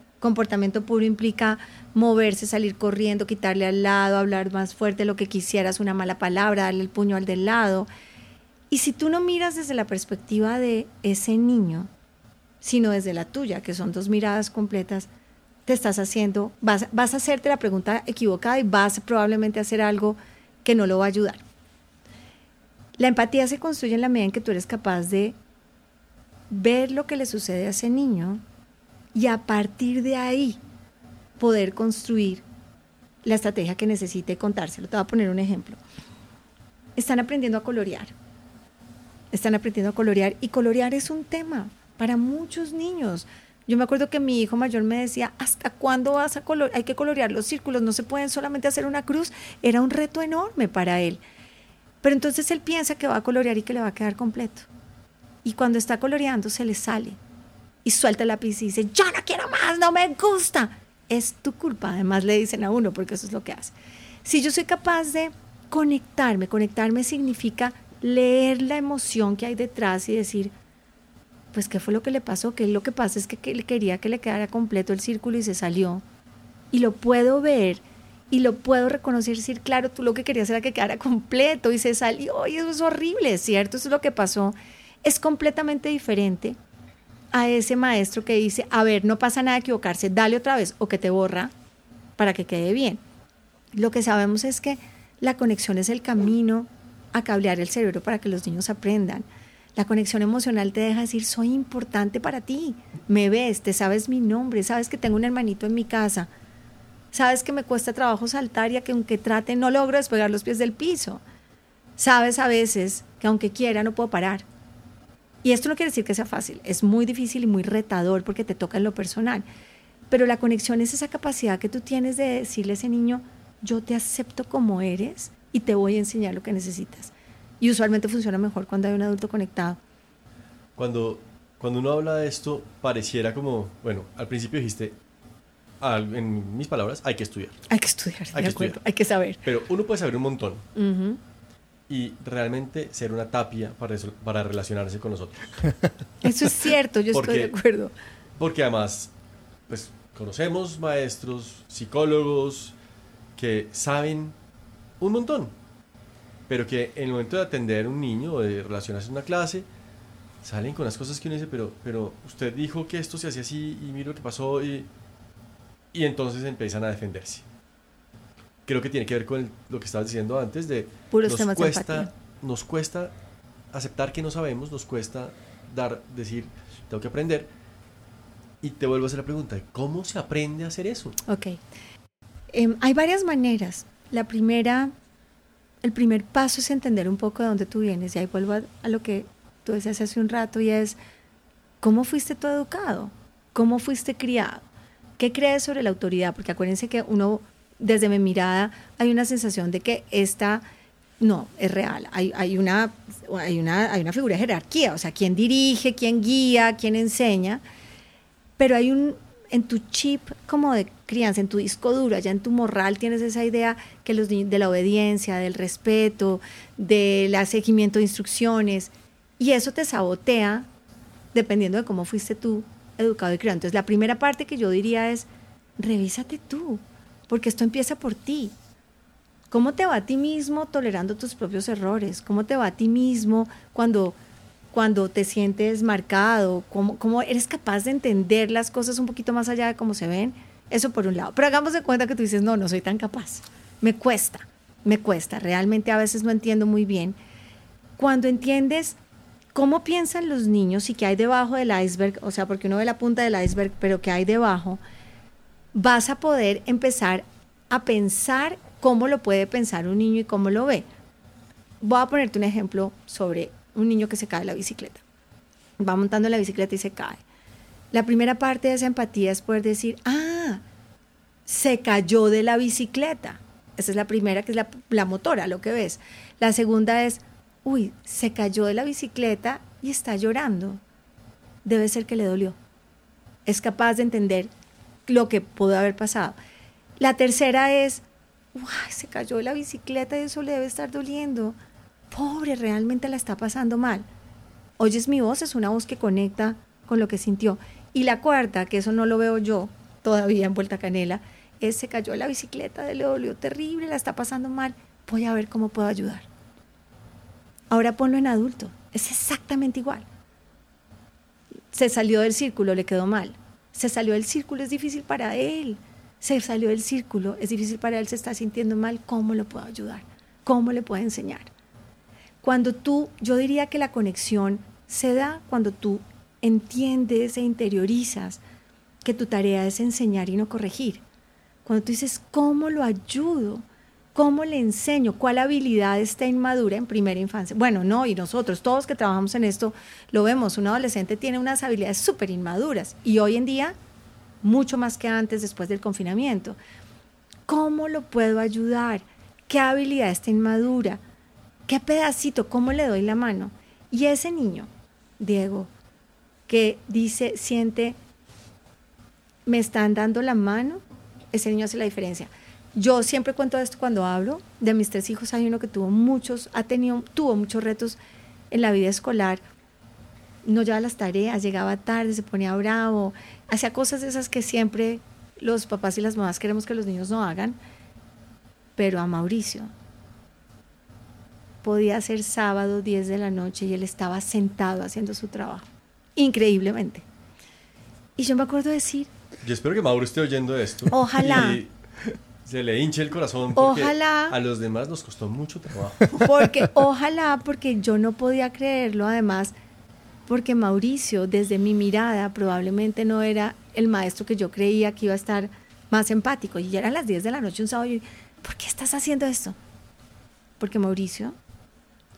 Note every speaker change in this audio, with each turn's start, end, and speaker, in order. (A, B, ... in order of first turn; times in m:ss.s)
0:00.2-0:07.9 A
0:08.7-0:11.9 A
0:12.6-0:15.1 A
0:15.7-0:21.4 A
0:23.0-0:25.4 A
0:26.5-0:28.4 A
0:29.1-0:30.6 A
0:31.4-0:32.4 A
0:33.2-0:35.8 A
0:37.0-0:38.1 A
0:39.3-0:51.2 A
0:52.0-0:54.7 A
0:55.4-0:57.2 A
0:57.8-1:03.7 A
1:04.2-1:10.5 A
1:11.5-1:16.0 A
1:16.7-1:26.6 A
1:27.3-1:31.5 A
1:32.2-1:33.0 A
1:33.7-1:46.3 A
1:47.1-1:51.2 A
1:52.0-1:54.4 A
1:55.4-1:59.4 A
2:00.1-2:09.8 A
2:10.8-2:15.0 B
2:15.8-2:17.6 B
2:17.7-2:19.4 A
2:18.3-2:18.8 B
2:19.4-2:20.6 B
2:20.7-2:21.2 A
2:21.9-2:25.7 B
2:26.2-2:27.9 A
2:27.1-2:27.5 B
2:28.4-2:29.1 B
2:29.7-2:32.7 B
2:33.4-2:34.3 B
2:35.0-2:35.5 B
2:36.5-2:39.6 B
2:40.4-2:44.9 B
2:45.9-2:47.4 B
2:48.6-2:53.1 B
2:51.1-2:52.1 A
2:53.7-2:57.5 B
2:58.6-3:01.2 B
3:01.2-3:01.6 A
3:02.5-3:04.9 A
3:05.8-3:11.0 A
3:11.8-3:14.6 A
3:15.2-3:20.6 A
3:21.2-3:27.6 A
3:28.6-3:40.6 A
3:41.3-3:45.3 A
3:45.8-3:48.5 A
3:49.5-3:54.2 A
3:54.7-4:07.2 A
4:08.0-4:09.0 A
4:09.5-4:14.8 A
4:15.7-4:20.8 A
4:21.8-4:25.0 A
4:25.8-4:27.2 A
4:27.9-4:30.6 A
4:31.5-4:40.8 A
4:41.6-4:42.6 A
4:43.4-4:44.5 A
4:45.1-4:46.4 A
4:47.0-4:48.0 A
4:48.5-4:51.6 A
4:52.1-4:54.0 A
4:54.8-5:06.2 A
5:07.7-5:10.0 A
5:11.7-5:21.5 A
5:22.4-5:28.4 A
5:29.0-5:31.0 A
5:31.6-5:33.6 A
5:34.1-5:43.7 A
5:44.4-5:46.6 A
5:47.5-5:51.0 A
5:51.7-5:55.7 A
5:56.5-5:58.0 A
5:59.4-6:00.8 A
6:01.3-6:08.0 A
6:08.5-6:09.4 A
6:10.4-6:17.6 A
6:18.8-6:19.7 A
6:21.6-6:27.0 A
6:28.2-6:29.1 A
6:29.4-6:31.7 B
6:30.9-6:31.6 A
6:32.4-6:36.2 B
6:33.6-6:34.4 A
6:36.1-6:39.5 A
6:40.3-6:49.6 A
6:50.6-6:51.4 A